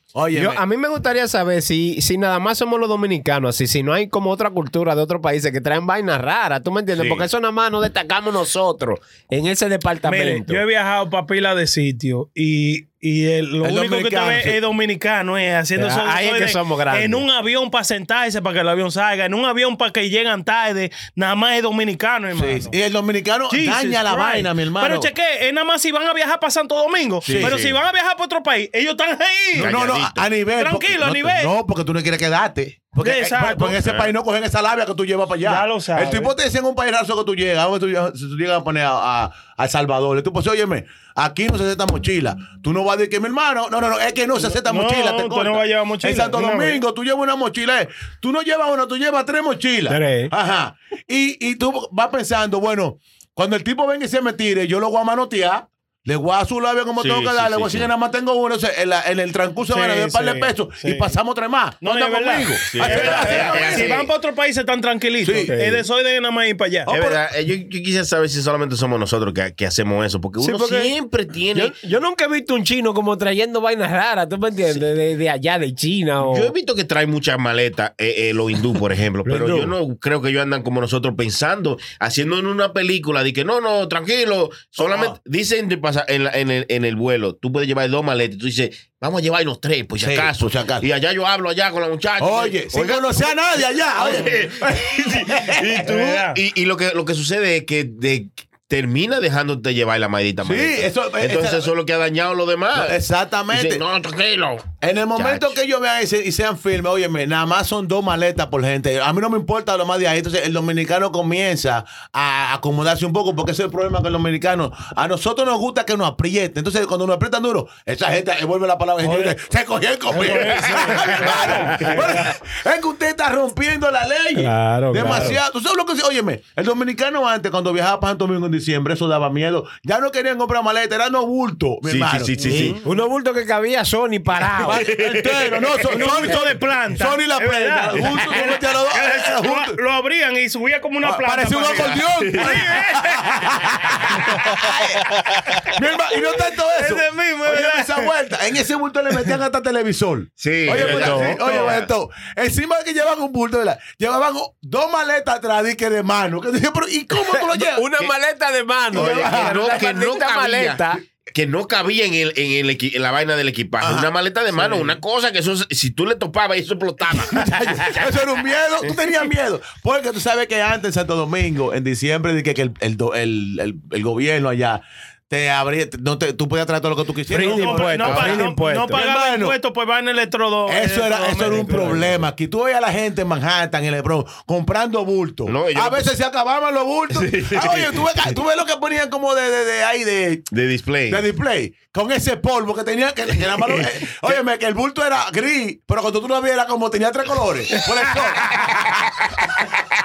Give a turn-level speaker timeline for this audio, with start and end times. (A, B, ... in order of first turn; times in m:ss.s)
0:00.1-0:00.6 A
0:00.3-0:10.6 B
0:10.0-0:22.8 C
0:13.6-0:14.6 A
0:15.8-0:17.2 B
0:22.3-0:25.1 A
0:23.5-0:29.7 C
0:27.2-0:27.6 A
0:27.3-0:27.8 D
0:29.6-1:03.9 A
0:29.6-0:30.3 D
0:30.6-0:31.5 C
0:33.0-0:33.8 C
0:35.4-0:36.3 C
0:44.4-0:46.8 C
0:49.9-0:50.3 B
0:57.0-0:57.9 D
0:59.7-1:01.1 C
1:01.8-1:06.9 C
1:02.7-1:04.1 D
1:05.2-1:05.6 A
1:05.5-1:05.8 B
1:06.9-1:07.2 A
1:06.9-1:11.7 D
1:10.4-1:10.9 B
1:11.5-1:16.5 B
1:16.2-1:33.3 D
1:19.2-1:19.8 B
1:24.8-1:25.2 A
1:30.0-1:30.8 A
1:32.2-1:35.8 A
1:34.0-1:43.0 D
1:35.8-1:36.4 C
1:40.4-1:41.7 A
1:42.7-1:43.8 A
1:43.5-1:45.6 D
1:44.8-2:12.7 A
1:59.0-1:59.3 C
2:00.1-2:02.0 C
2:01.3-2:02.1 B
2:04.4-2:05.4 B
2:11.8-2:12.8 D
2:12.4-2:14.9 B
2:14.6-2:19.8 A
2:14.7-2:15.6 D
2:15.9-2:23.4 C
2:21.0-2:25.1 A
2:22.2-2:22.5 D
2:25.7-2:38.0 A
2:26.4-2:28.1 C
2:30.4-2:31.8 D
2:30.7-2:31.6 B
2:37.2-2:41.0 B
2:38.9-2:39.6 A
2:38.9-2:48.1 D
2:43.8-2:44.1 A
2:47.2-2:59.6 A
2:57.3-2:59.0 B
2:57.3-3:02.0 C
3:00.7-3:10.5 A
3:01.5-3:02.1 B
3:05.5-3:06.1 D
3:07.1-3:08.0 D
3:10.5-3:11.2 D
3:11.1-3:19.6 A